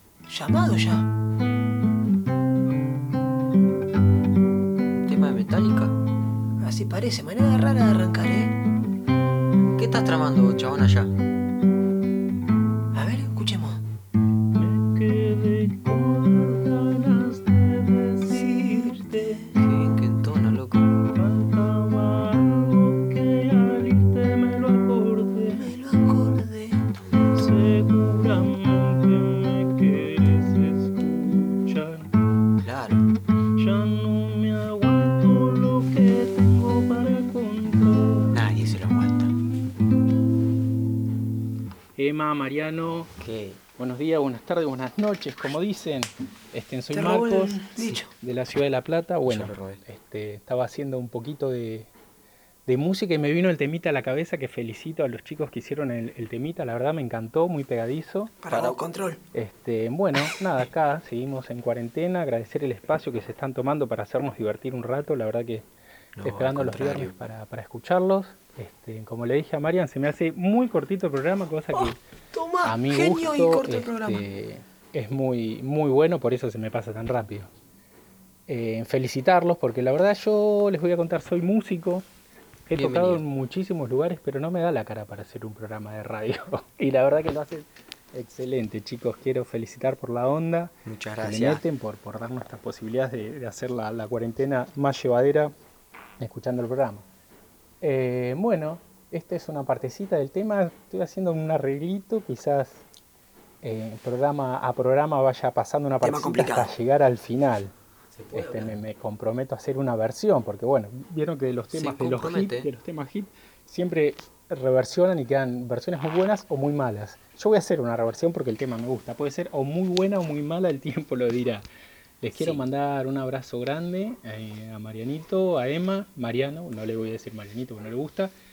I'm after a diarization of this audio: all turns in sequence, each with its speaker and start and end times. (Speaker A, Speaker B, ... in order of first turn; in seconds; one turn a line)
Speaker A: 0.3-1.1
Speaker B: 4.9-5.9
Speaker A: 6.6-8.5
Speaker B: 9.8-11.1
Speaker A: 12.9-13.8
Speaker C: 14.6-19.5
Speaker B: 19.6-20.9
Speaker C: 21.1-25.7
Speaker A: 25.6-26.9
Speaker C: 27.3-32.1
Speaker B: 32.6-33.0
Speaker C: 33.6-38.4
Speaker B: 38.3-39.3
Speaker C: 42.0-43.1
Speaker B: 43.2-43.6
Speaker C: 43.8-51.9
Speaker A: 46.9-48.1
Speaker B: 49.3-49.8
Speaker C: 52.7-58.3
Speaker A: 58.4-59.2
Speaker B: 58.5-58.8
Speaker C: 59.3-65.7
Speaker B: 66.2-67.1
Speaker C: 66.2-72.0
Speaker A: 71.7-74.2
Speaker C: 72.6-77.5
Speaker C: 78.5-82.0
Speaker C: 82.7-95.5
Speaker B: 82.7-83.2
Speaker B: 90.9-91.6
Speaker C: 96.2-97.0
Speaker C: 97.8-102.8
Speaker C: 103.6-107.7
Speaker A: 106.0-106.7
Speaker B: 108.2-108.7
Speaker C: 108.3-121.7
Speaker B: 111.7-112.7
Speaker C: 122.2-128.3
Speaker B: 122.3-122.6